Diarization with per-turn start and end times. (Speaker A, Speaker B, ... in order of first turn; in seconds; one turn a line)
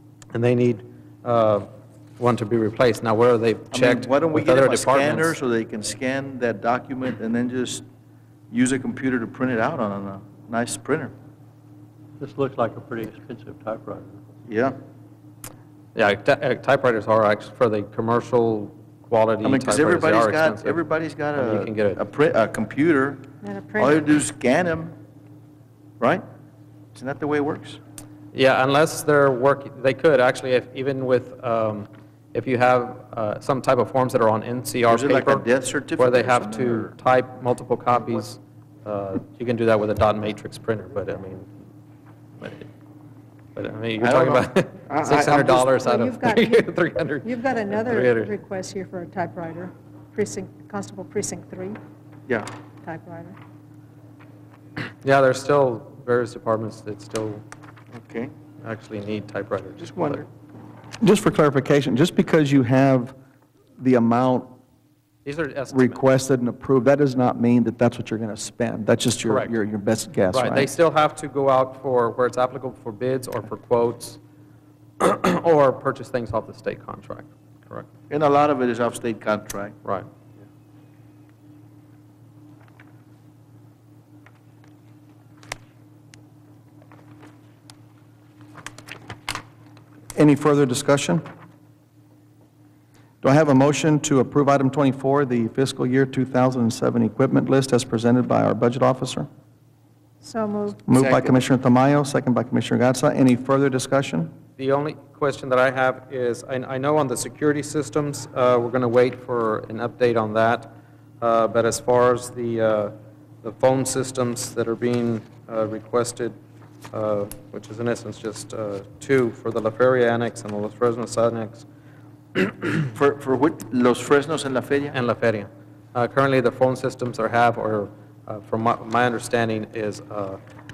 Speaker A: 0.3-5.4
Speaker B: 3.7-7.8
Speaker B: 8.5-11.1
Speaker C: 12.2-14.2
Speaker B: 14.5-14.8
Speaker A: 15.9-20.8
Speaker B: 19.4-23.2
Speaker A: 21.3-22.0
Speaker D: 23.4-24.0
Speaker B: 23.8-24.9
Speaker B: 26.9-27.8
Speaker A: 28.3-41.5
Speaker B: 34.9-36.9
Speaker A: 43.5-48.3
Speaker B: 44.0-45.7
Speaker D: 45.7-46.7
Speaker D: 47.2-51.8
Speaker D: 52.8-53.4
Speaker A: 55.0-57.4
Speaker B: 57.9-58.3
Speaker A: 58.6-60.2
Speaker B: 59.8-60.2
Speaker E: 61.0-63.1
Speaker E: 63.8-64.5
Speaker A: 65.2-66.0
Speaker E: 65.7-70.7
Speaker A: 69.2-69.5
Speaker A: 70.3-74.2
Speaker A: 75.0-77.9
Speaker B: 78.1-79.8
Speaker E: 90.1-91.2
Speaker E: 93.2-99.3
Speaker D: 100.2-100.8
Speaker E: 100.9-104.3
Speaker B: 100.9-101.3
Speaker A: 104.6-116.3
Speaker A: 116.9-121.7
Speaker A: 122.3-122.8
Speaker B: 123.0-125.0
Speaker A: 124.9-130.4